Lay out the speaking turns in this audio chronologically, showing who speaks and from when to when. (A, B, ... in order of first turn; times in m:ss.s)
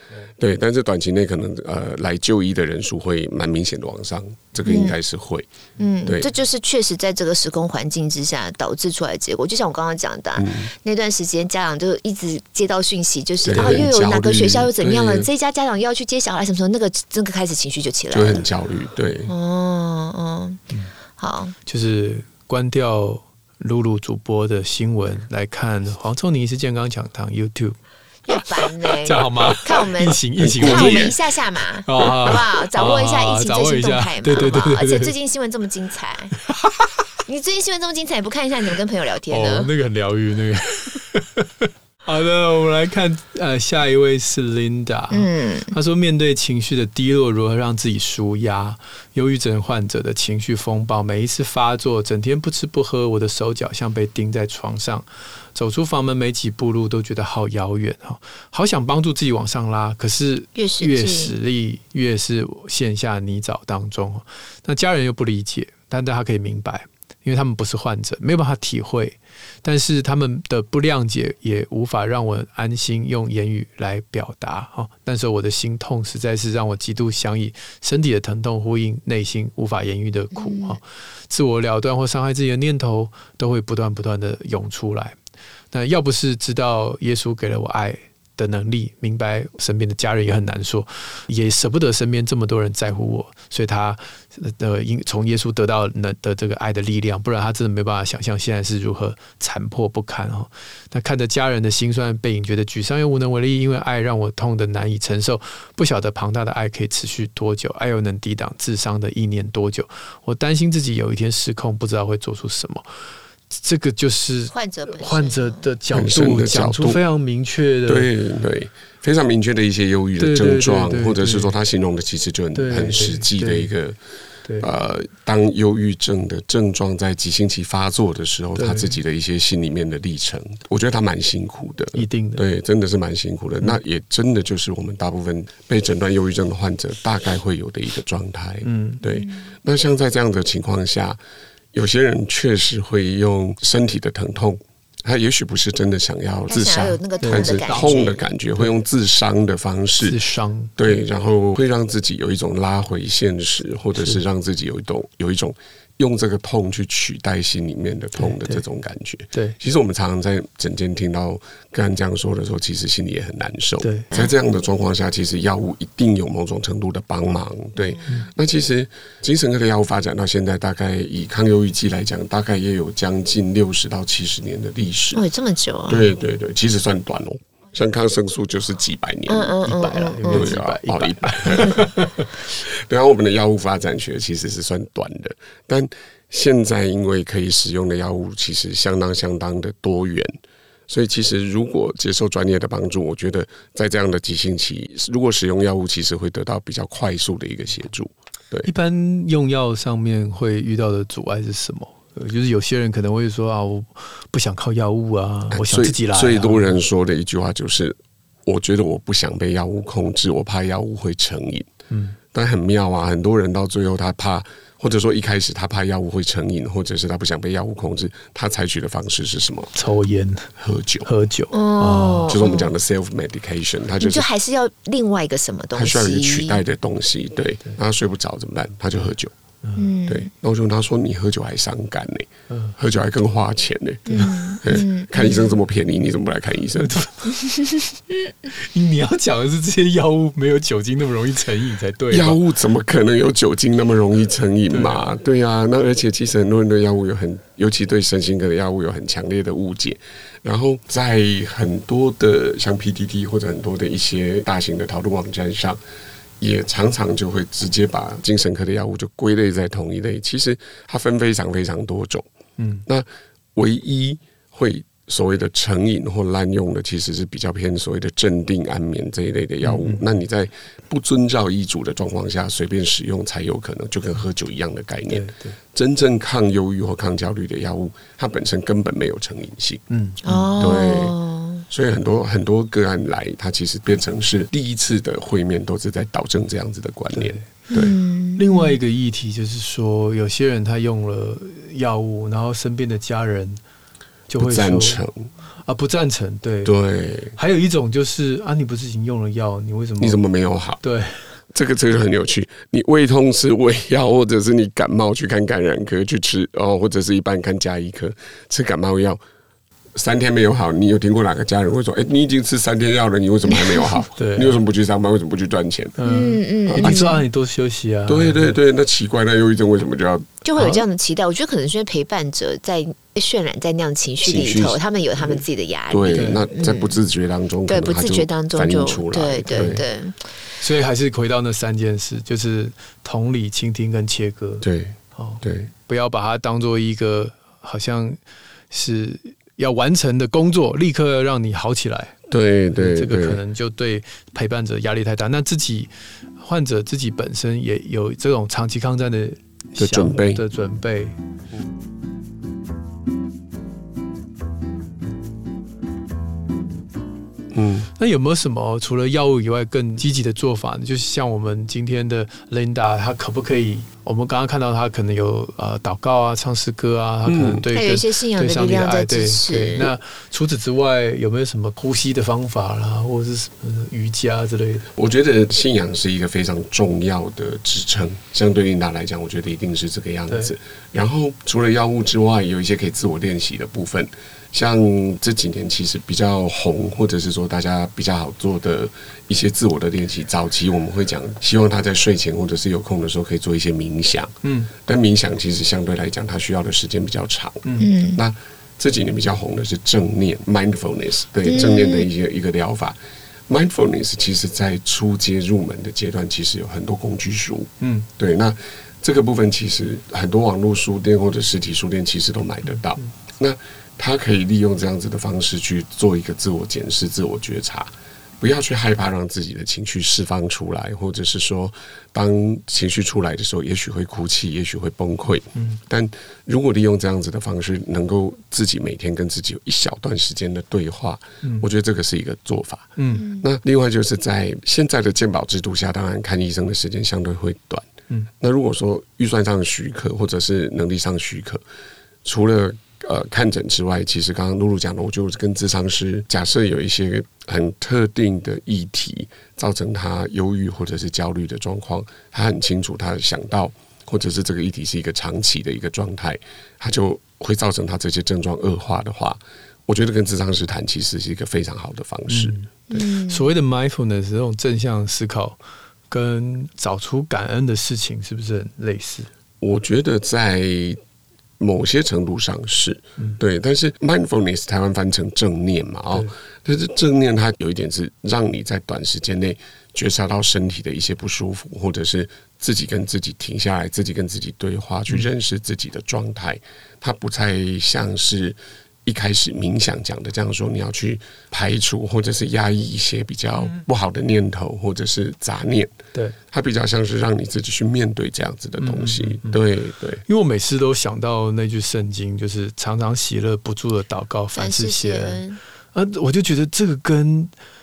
0:00.4-0:05.5 A
0:04.6-0:05.0 B
0:05.8-0:18.4 B
0:10.4-0:10.7 A
0:13.4-0:15.3 A
0:13.6-0:13.8 C
0:18.1-0:19.3 A
0:19.3-0:20.6 B
0:21.2-0:21.5 B
0:21.6-0:27.8 C
0:28.3-0:36.4 B
0:28.3-0:31.1 C
0:30.4-0:31.1 A
0:31.8-0:35.1 C
0:36.4-0:37.0 C
0:37.2-0:39.7 B
0:39.3-1:25.2 C
0:45.1-0:45.7 B
1:00.6-1:01.3 B
1:20.3-1:20.8 B
1:25.7-1:52.8 C
1:53.5-1:58.1 C
1:54.5-1:55.7 B
1:55.9-1:57.0 A
1:57.8-2:04.0 A
2:00.2-2:01.5 C
2:02.5-2:03.7 C
2:04.6-2:21.2 A
2:08.5-2:09.0 C
2:11.9-2:12.4 C
2:18.6-2:19.0 C
2:21.7-2:30.2 A
2:26.5-2:28.2 B
2:27.2-2:28.7 C
2:30.0-2:30.8 C
2:30.8-2:55.2 A
2:38.2-2:38.6 C
2:43.8-2:44.1 C
2:55.1-2:56.1 B
2:55.9-3:01.9 A
2:59.3-3:00.5 B
3:00.1-3:02.3 C
3:02.5-3:10.3 A
3:10.9-3:18.7 A
3:18.6-3:26.8 C
3:25.5-3:31.7 A
3:31.9-3:32.2 C
3:32.3-3:39.7 A
3:39.7-3:40.5 C
3:40.6-3:41.1 A
3:41.0-3:42.4 C
3:41.5-3:42.7 B
3:42.3-3:44.2 A
3:44.0-3:46.6 B
3:45.7-3:49.3 A
3:49.6-3:49.9 C
3:49.8-3:50.3 B
3:50.1-3:57.0 A
3:52.5-3:52.7 C
3:54.1-3:55.6 B
3:54.2-3:54.5 C
3:56.8-3:57.6 C
3:58.5-4:02.4 C
4:02.1-4:15.8 A
4:04.7-4:05.1 C
4:16.4-4:22.3 A
4:22.6-4:22.8 C
4:22.8-4:39.8 A
4:29.6-4:30.0 C
4:35.1-4:35.6 C
4:39.9-4:40.7 C
4:40.2-4:41.6 B
4:40.6-4:41.2 A
4:41.7-4:47.9 A
4:47.1-4:47.5 C
4:47.7-4:48.8 B
4:48.4-4:53.6 C
4:54.3-4:55.0 C
4:54.4-4:55.3 A
4:55.6-4:56.7 C
4:56.6-4:57.4 A
4:57.3-5:00.2 C
5:00.0-5:00.8 A
5:00.8-5:01.2 C
5:01.5-5:09.2 A
5:09.9-5:16.0 A
5:13.5-5:13.9 B
5:14.2-5:14.6 C
5:16.0-5:18.6 C
5:16.0-5:17.2 B
5:16.6-5:17.1 A
5:18.1-5:20.4 A
5:20.4-5:27.0 B
5:20.6-5:20.8 C
5:24.2-5:29.8 A
5:26.1-5:26.5 C
5:27.7-5:30.2 B
5:29.5-5:29.8 C
5:30.6-5:34.6 C
5:34.6-5:35.7 A
5:35.1-5:38.2 C
5:38.7-5:42.1 C
5:42.3-5:43.4 A
5:42.7-5:51.2 C
5:49.8-5:50.4 A
5:57.5-5:57.9 A
5:58.0-6:14.9 C
6:07.2-6:07.6 A
6:07.7-6:09.9 B
6:14.9-6:43.0 A
6:34.4-6:34.7 C
6:37.6-6:37.9 C
6:37.8-6:38.2 B
6:41.4-6:42.1 B
6:43.5-7:21.6 A
6:47.8-6:48.1 C
7:11.4-7:11.7 C
7:13.0-7:13.3 C
7:13.2-7:13.4 B
7:22.2-7:43.0 A
7:42.3-7:45.6 C
7:42.9-7:43.5 B
7:46.1-7:49.3 C
7:49.6-7:51.0 A
7:51.6-8:15.9 A
8:16.5-8:20.2 A
8:18.8-8:19.6 C
8:20.3-8:25.4 C
8:24.5-8:25.6 B
8:25.9-8:27.5 C